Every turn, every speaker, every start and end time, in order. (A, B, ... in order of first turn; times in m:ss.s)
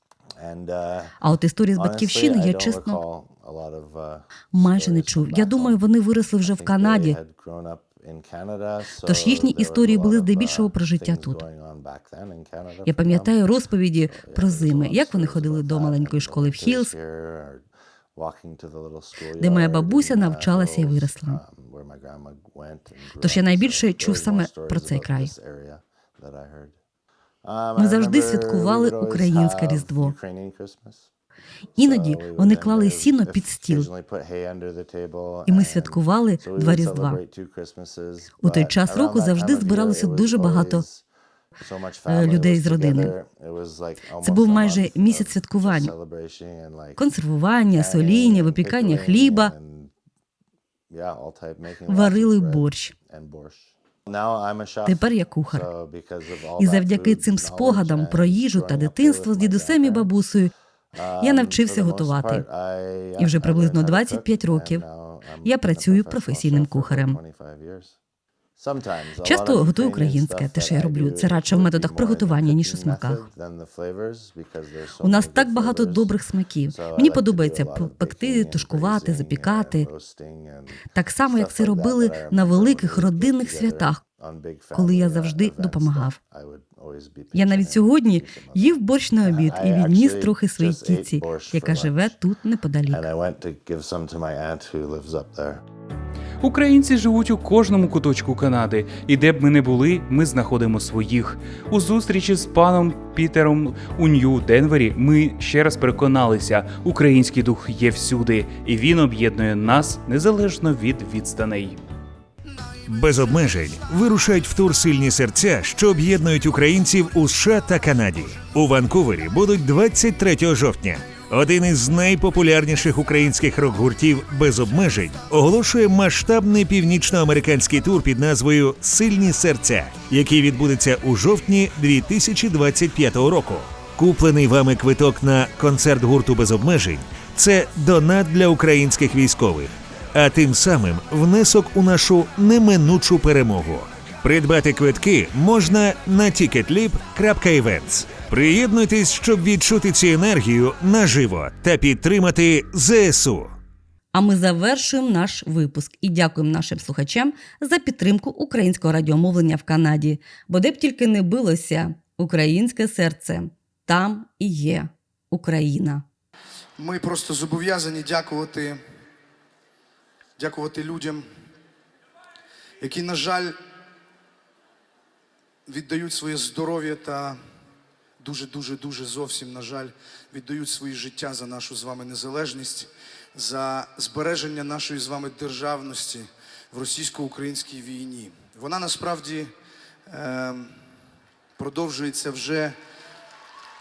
0:00.4-0:01.2 A
0:01.2-0:03.0 B
0:01.7-0:05.8 A
0:04.5-0:07.2 B
0:06.4-0:26.8 A
0:09.0-0:11.4 B
0:12.8-0:16.9 B
0:19.4-0:21.4 B
0:23.2-0:25.3 B
0:27.4-0:31.1 A
0:27.8-0:30.1 B
0:31.7-0:41.0 A
0:31.8-0:33.9 B
0:35.5-0:37.2 B
0:38.4-0:40.8 B
0:41.6-0:47.0 A
0:42.1-0:43.1 B
0:44.2-0:45.9 B
0:47.0-0:49.5 B
0:47.7-0:49.9 A
0:50.9-1:00.1 A
0:51.9-0:52.9 B
0:54.8-0:55.7 B
0:56.6-1:00.5 B
1:00.9-1:08.0 A
1:01.2-1:02.4 B
1:03.2-1:04.8 B
1:05.4-1:07.2 B
1:08.6-1:16.1 A
1:09.2-1:13.2 B
1:15.0-1:19.9 B
1:16.7-1:32.2 A
1:20.9-1:24.0 B
1:24.7-1:26.2 B
1:27.3-1:33.0 B
1:32.9-1:35.6 A
1:36.4-1:51.8 C
1:52.9-2:33.6 D
1:53.0-1:53.5 E
2:34.1-2:46.0 B
2:46.8-2:48.8 E
2:50.4-2:51.2 E
2:52.8-2:53.6 E
2:55.6-2:57.4 E
2:58.2-3:09.5 E
3:10.1-3:10.7 E
3:11.6-3:12.8 E